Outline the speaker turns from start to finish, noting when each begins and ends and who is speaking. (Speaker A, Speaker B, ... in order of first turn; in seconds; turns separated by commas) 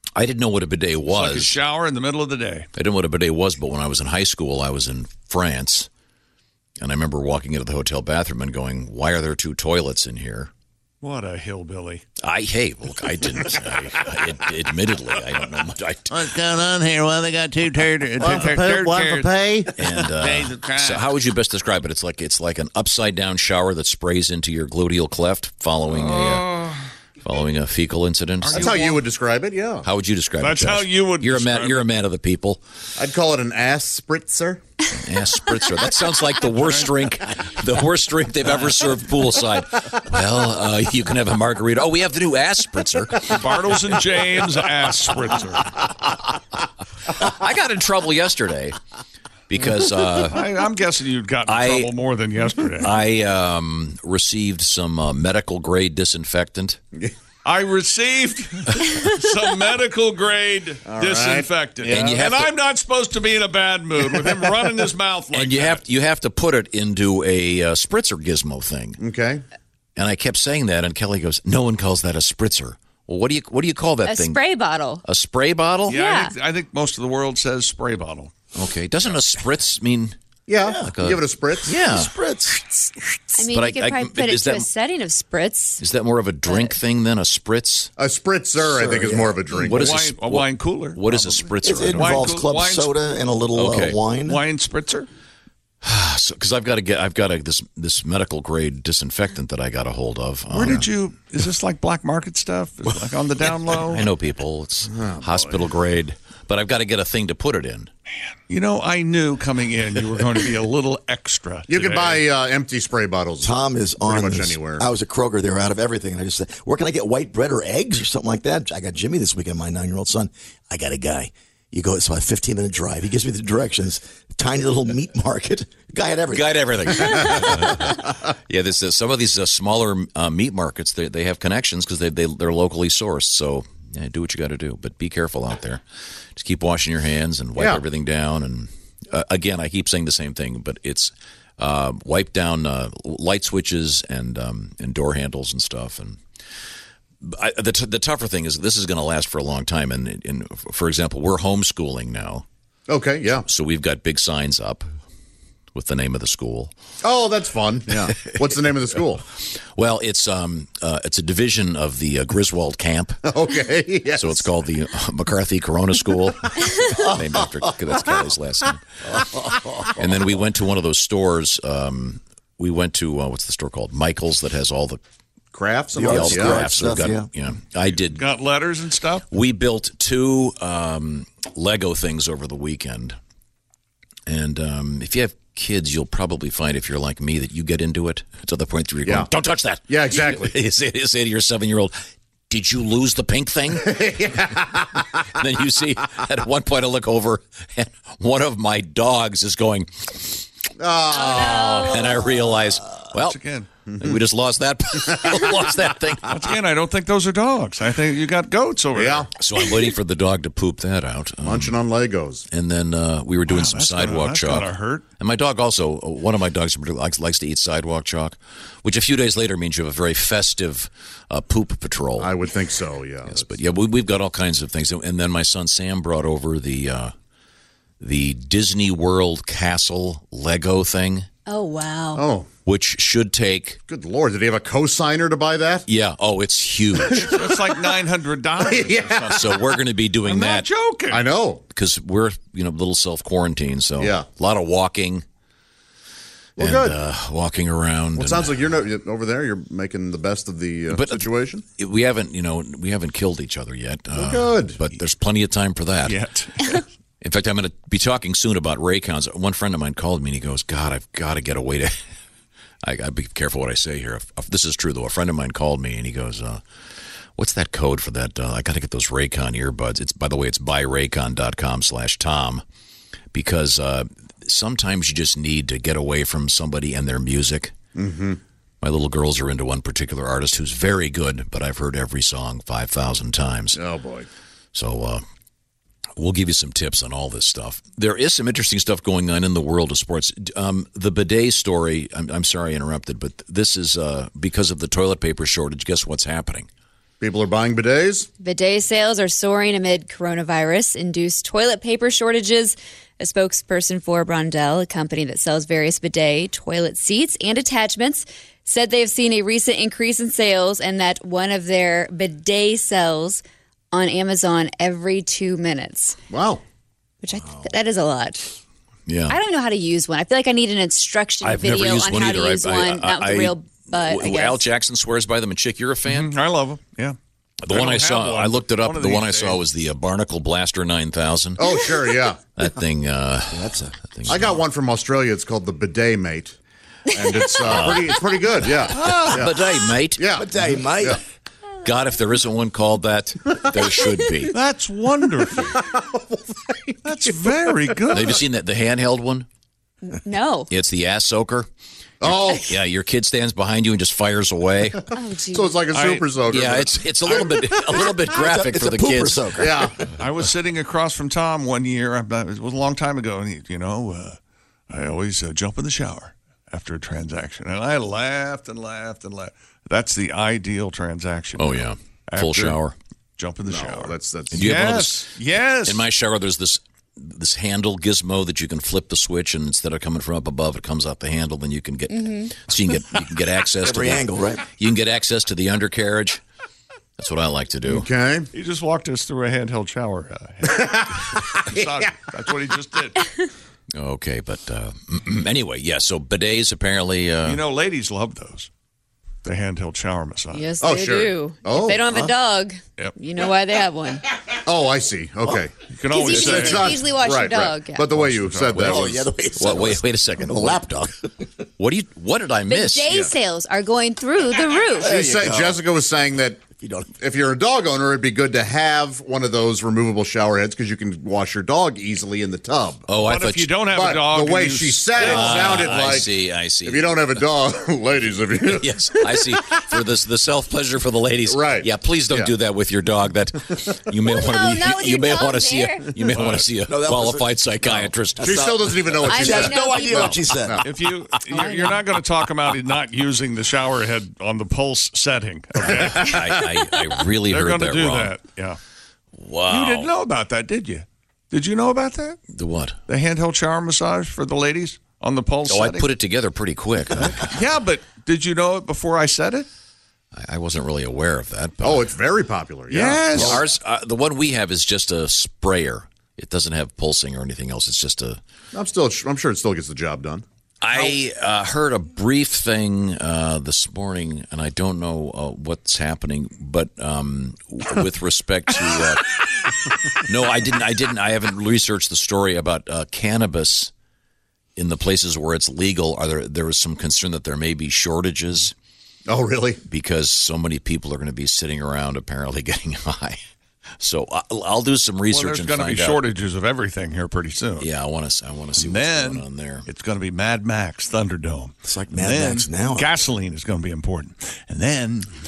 Speaker A: 0.1-1.6, Speaker B: 1.1-2.7, Speaker A: 2.8-5.9, Speaker A: 6.8-10.5, Speaker B: 11.0-12.0, Speaker A: 12.2-16.2, Speaker C: 16.1-18.8, Speaker D: 18.2-19.7, Speaker B: 18.2-19.2, Speaker A: 19.8-26.5, Speaker C: 20.2-20.5, Speaker B: 25.9-26.8, Speaker A: 27.2-28.6, Speaker B: 28.4-29.0, Speaker D: 28.5-29.9, Speaker A: 29.8-32.6, Speaker B: 30.4-31.9, Speaker D: 33.0-34.6, Speaker A: 34.9-43.4, Speaker B: 36.6-36.9, Speaker B: 43.2-45.7, Speaker A: 47.1-48.8, Speaker A: 49.5-50.4, Speaker B: 50.2-52.9, Speaker A: 51.5-51.9, Speaker A: 52.8-56.8, Speaker B: 57.4-65.8, Speaker D: 60.9-61.5, Speaker A: 61.8-62.5, Speaker A: 65.3-69.0, Speaker D: 69.0-69.4, Speaker A: 70.0-74.4, Speaker E: 74.0-75.0, Speaker A: 75.0-76.0, Speaker B: 75.8-78.3, Speaker E: 76.0-76.3, Speaker A: 78.5-80.2, Speaker D: 80.5-81.8, Speaker F: 80.6-81.0, Speaker A: 80.8-82.1, Speaker F: 81.7-82.7, Speaker E: 83.3-85.8, Speaker A: 83.5-84.7, Speaker A: 85.8-87.9, Speaker E: 86.4-86.8, Speaker D: 88.0-90.0, Speaker F: 88.6-89.6, Speaker A: 89.7-92.2, Speaker B: 89.7-92.9, Speaker F: 91.6-94.4, Speaker A: 93.5-94.0, Speaker B: 94.2-95.1, Speaker A: 95.8-100.8, Speaker B: 100.5-104.1, Speaker A: 103.8-107.9, Speaker D: 104.9-105.3, Speaker B: 108.5-112.2, Speaker D: 111.7-114.9, Speaker F: 113.4-127.0, Speaker A: 126.3-135.8, Speaker A: 136.3-146.2, Speaker D: 137.6-137.8, Speaker A: 147.2-152.4, Speaker D: 152.9-153.4, Speaker A: 153.4-154.9, Speaker A: 155.7-156.7, Speaker D: 157.0-159.2, Speaker A: 158.1-158.3, Speaker A: 159.4-163.2, Speaker D: 163.2-164.5, Speaker A: 164.2-168.8, Speaker F: 169.2-169.7, Speaker A: 169.9-175.0, Speaker D: 175.5-176.7, Speaker F: 175.9-177.2, Speaker A: 176.0-178.3, Speaker B: 178.0-179.2, Speaker A: 179.3-183.2, Speaker A: 184.3-191.9, Speaker D: 189.0-189.3, Speaker D: 189.9-190.6, Speaker A: 192.5-194.0, Speaker D: 193.8-195.3, Speaker A: 195.3-200.4, Speaker D: 200.8-202.1, Speaker E: 201.1-202.3, Speaker A: 201.8-203.4, Speaker B: 203.1-203.7, Speaker D: 203.9-204.2, Speaker A: 204.0-206.3, Speaker D: 205.1-205.3, Speaker B: 206.3-209.3, Speaker D: 208.9-209.3, Speaker A: 209.3-211.8, Speaker D: 211.4-212.4, Speaker A: 212.5-222.3, Speaker B: 213.4-215.0, Speaker D: 222.2-223.6, Speaker A: 223.2-227.1, Speaker A: 228.0-231.3, Speaker E: 231.5-232.2, Speaker D: 232.2-232.5, Speaker A: 232.6-233.8, Speaker D: 233.9-235.9, Speaker A: 235.9-237.2, Speaker D: 237.1-237.5, Speaker B: 237.1-239.4, Speaker D: 238.6-239.7, Speaker A: 239.3-240.7, Speaker B: 240.2-241.2, Speaker D: 241.1-241.6, Speaker A: 241.7-245.2, Speaker D: 244.0-244.2, Speaker D: 246.6-247.0, Speaker A: 246.6-248.8, Speaker D: 248.1-251.6, Speaker A: 250.9-256.2, Speaker D: 254.1-254.8, Speaker B: 256.0-256.8, Speaker A: 257.2-261.9, Speaker A: 262.8-266.6, Speaker A: 267.4-272.6, Speaker A: 273.3-277.8, Speaker D: 277.9-278.4, Speaker A: 278.8-283.8, Speaker D: 283.7-284.3, Speaker A: 284.7-285.2, Speaker A: 286.2-296.7, Speaker D: 297.2-298.3, Speaker E: 298.4-316.2, Speaker D: 316.3-316.6, Speaker E: 317.2-318.6, Speaker A: 319.1-319.4, Speaker E: 319.2-324.7, Speaker A: 321.4-326.3, Speaker B: 326.0-327.2, Speaker A: 327.6-331.7, Speaker B: 327.7-329.6, Speaker D: 331.6-332.4, Speaker A: 332.6-334.6, Speaker F: 333.5-333.9, Speaker D: 334.2-336.6, Speaker D: 337.1-339.6, Speaker A: 337.6-340.3, Speaker B: 339.0-339.3, Speaker D: 340.1-341.2, Speaker F: 340.3-341.2, Speaker A: 341.8-344.5, Speaker B: 344.5-345.8, Speaker D: 345.6-347.5, Speaker B: 347.0-348.4, Speaker A: 348.1-349.5, Speaker E: 350.0-350.7, Speaker A: 350.7-351.7, Speaker D: 352.2-352.8, Speaker A: 352.2-355.1, Speaker D: 355.1-358.2, Speaker E: 355.1-355.8, Speaker B: 355.9-356.4, Speaker A: 356.4-359.8, Speaker F: 358.2-360.1, Speaker D: 359.6-359.9, Speaker B: 360.2-364.4, Speaker B: 364.9-372.8, Speaker A: 371.6-372.9, Speaker B: 373.4-376.1, Speaker D: 373.6-374.6, Speaker A: 374.5-375.3, Speaker A: 375.8-386.4, Speaker E: 382.1-382.6, Speaker F: 383.8-384.6, Speaker A: 387.2-388.1, Speaker D: 387.8-388.5, Speaker B: 388.5-393.3, Speaker D: 390.7-392.1, Speaker A: 393.9-397.6, Speaker B: 397.4-398.7, Speaker B: 399.4-400.7, Speaker E: 400.5-404.3, Speaker D: 400.8-402.1, Speaker D: 404.6-408.9, Speaker B: 405.9-407.1, Speaker E: 406.1-408.1, Speaker B: 408.1-409.2, Speaker A: 408.7-410.8, Speaker F: 408.8-411.6, Speaker A: 411.8-413.1, Speaker E: 412.7-415.2, Speaker D: 413.1-413.3, Speaker F: 415.0-415.8, Speaker D: 415.1-416.6, Speaker F: 416.8-417.1, Speaker D: 417.2-423.1, Speaker A: 423.1-423.7, Speaker B: 423.2-426.0, Speaker D: 423.8-429.8, Speaker A: 425.2-427.1, Speaker A: 428.7-438.6, Speaker D: 431.4-432.5, Speaker E: 434.3-436.2, Speaker B: 436.3-436.7, Speaker F: 436.9-440.8, Speaker D: 438.4-440.9, Speaker E: 439.2-440.4, Speaker B: 440.8-446.6, Speaker E: 441.4-441.9, Speaker A: 446.1-448.4, Speaker B: 447.4-448.8, Speaker A: 449.3-450.1, Speaker B: 449.7-452.4, Speaker A: 452.5-453.0, Speaker B: 453.1-456.1, Speaker A: 455.7-457.5, Speaker B: 457.2-459.7, Speaker A: 460.3-462.1, Speaker D: 461.8-463.6, Speaker B: 462.9-463.6, Speaker A: 463.4-468.4, Speaker D: 468.7-471.1, Speaker A: 470.8-479.4, Speaker A: 480.2-483.9, Speaker A: 484.8-488.7, Speaker D: 489.3-489.8, Speaker A: 489.9-493.4, Speaker A: 494.0-496.2, Speaker B: 495.3-497.9, Speaker A: 497.8-499.9, Speaker B: 498.7-505.3, Speaker F: 501.8-503.2